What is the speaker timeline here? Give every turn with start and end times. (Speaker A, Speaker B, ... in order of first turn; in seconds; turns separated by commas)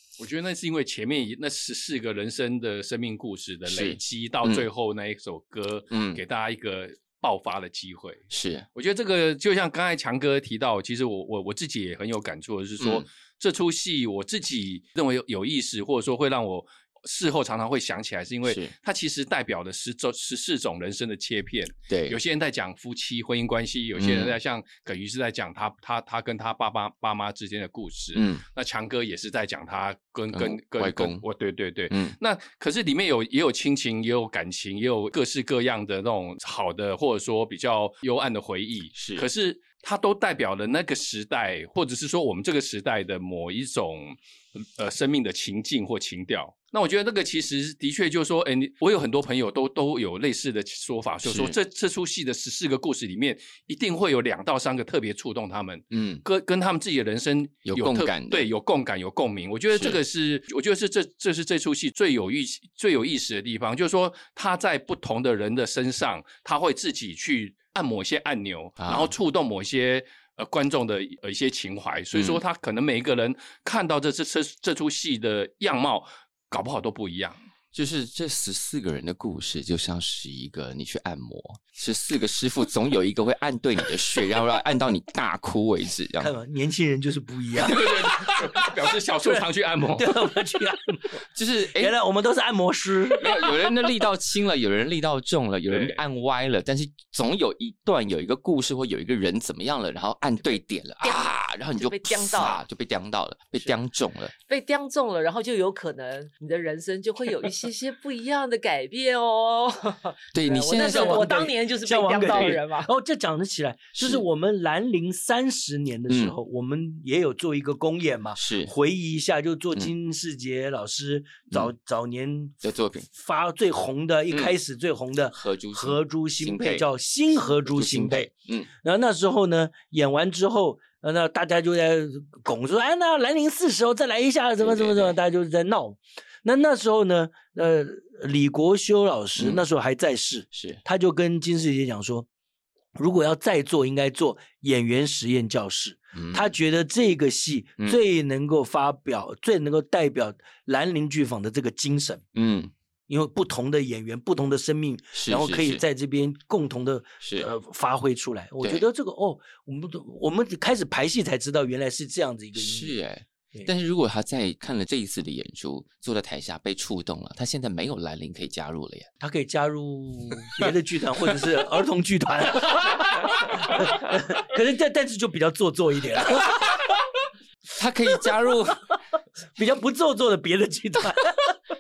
Speaker A: 0.2-8.2, Speaker B: 3.7-4.7, Speaker B: 5.9-6.2, Speaker B: 8.3-8.7, Speaker A: 8.8-77.4, Speaker B: 12.8-13.1, Speaker B: 18.5-18.7, Speaker B: 21.9-22.2, Speaker B: 24.0-24.4, Speaker B: 28.1-28.4, Speaker B: 30.3-31.2, Speaker B: 31.9-32.2, Speaker B: 39.0-39.3, Speaker B: 51.2-51.6, Speaker B: 55.9-56.2, Speaker B: 57.6-58.5, Speaker B: 59.7-60.0, Speaker B: 68.8-69.1, Speaker B: 72.1-72.4, Speaker B: 77.7-86.3, Speaker C: 86.2-88.3, Speaker A: 87.7-90.2, Speaker B: 87.7-88.5, Speaker C: 89.2-93.6, Speaker B: 91.3-91.9, Speaker B: 93.1-104.3, Speaker A: 95.7-96.0, Speaker D: 101.0-102.6, Speaker D: 104.5-112.9, Speaker B: 110.3-111.3, Speaker C: 110.8-122.6, Speaker B: 114.0-114.2, Speaker B: 116.1-116.3, Speaker B: 118.4-118.7, Speaker B: 122.6-123.1, Speaker C: 123.1-142.3, Speaker B: 125.3-126.9, Speaker B: 127.7-128.7, Speaker B: 134.6-135.2, Speaker B: 139.4-139.6, Speaker B: 140.5-140.8, Speaker C: 143.0-152.2, Speaker B: 146.1-146.5, Speaker B: 152.3-152.7, Speaker C: 153.1-162.9, Speaker B: 155.1-155.8, Speaker B: 157.2-157.5, Speaker B: 162.6-169.1, Speaker C: 169.2-176.7, Speaker B: 177.8-178.9, Speaker C: 179.6-181.4